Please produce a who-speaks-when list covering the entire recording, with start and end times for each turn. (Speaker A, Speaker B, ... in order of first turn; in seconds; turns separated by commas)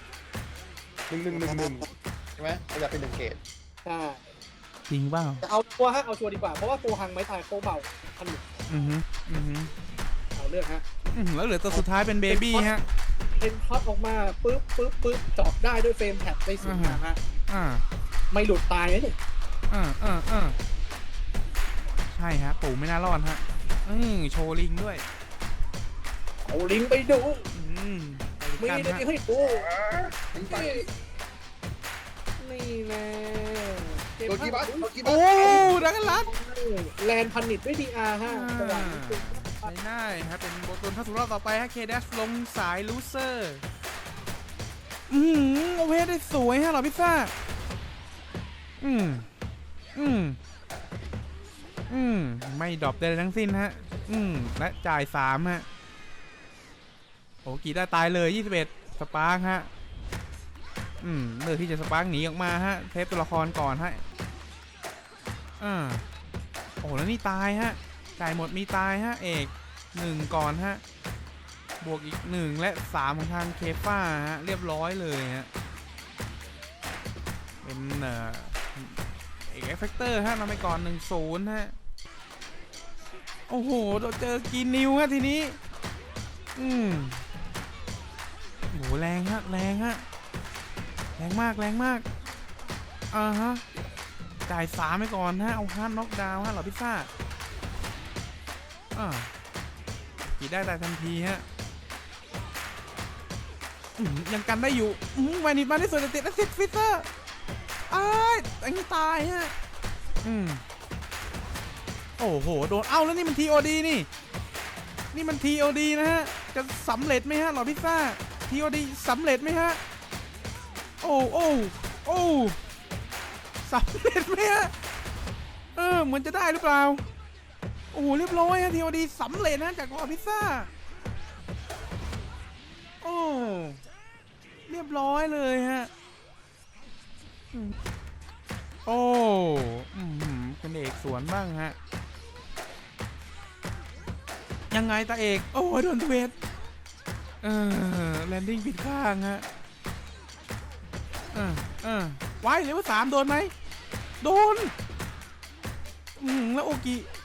Speaker A: 1.1-3.4, Speaker B: 1.3-1.7, Speaker C: 3.9-4.2, Speaker B: 4.9-5.4, Speaker C: 5.4-8.5, Speaker B: 8.7-9.7, Speaker C: 10.3-10.8, Speaker B: 11.1-12.8, Speaker C: 11.7-12.8, Speaker C: 13.4-17.2, Speaker B: 16.6-17.8, Speaker C: 18.3-19.2, Speaker B: 19.7-20.6, Speaker B: 22.1-25.0, Speaker C: 26.4-27.5, Speaker B: 27.5-29.1, Speaker C: 28.6-29.7, Speaker A: 29.4-30.9, Speaker C: 30.4-30.9, Speaker C: 32.4-39.7, Speaker A: 34.3-35.7, Speaker B: 35.0-36.3, Speaker B: 38.2-43.6, Speaker B: 45.1-47.3, Speaker B: 48.8-49.3, Speaker B: 50.0-50.4, Speaker B: 51.9-55.7, Speaker B: 57.5-59.7, Speaker B: 61.0-64.0, Speaker B: 65.6-66.0, Speaker B: 66.8-70.8, Speaker B: 71.8-75.5, Speaker B: 77.6-81.7, Speaker B: 83.5-85.6, Speaker B: 86.6-87.2, Speaker B: 88.7-90.0, Speaker B: 91.2-92.1, Speaker B: 93.1-93.6, Speaker B: 94.5-97.1, Speaker B: 99.0-99.3, Speaker B: 100.2-101.5, Speaker B: 104.0-107.1, Speaker B: 107.9-109.5, Speaker B: 110.2-110.6, Speaker B: 112.2-114.1, Speaker B: 115.1-119.8, Speaker B: 121.0-122.6, Speaker B: 123.7-124.7, Speaker B: 125.8-127.0, Speaker B: 127.9-130.7, Speaker B: 133.0-133.8, Speaker B: 134.7-135.9, Speaker B: 138.9-141.8, Speaker B: 144.7-146.3, Speaker B: 147.4-149.5, Speaker B: 151.3-153.5, Speaker B: 154.2-154.7, Speaker B: 156.2-157.1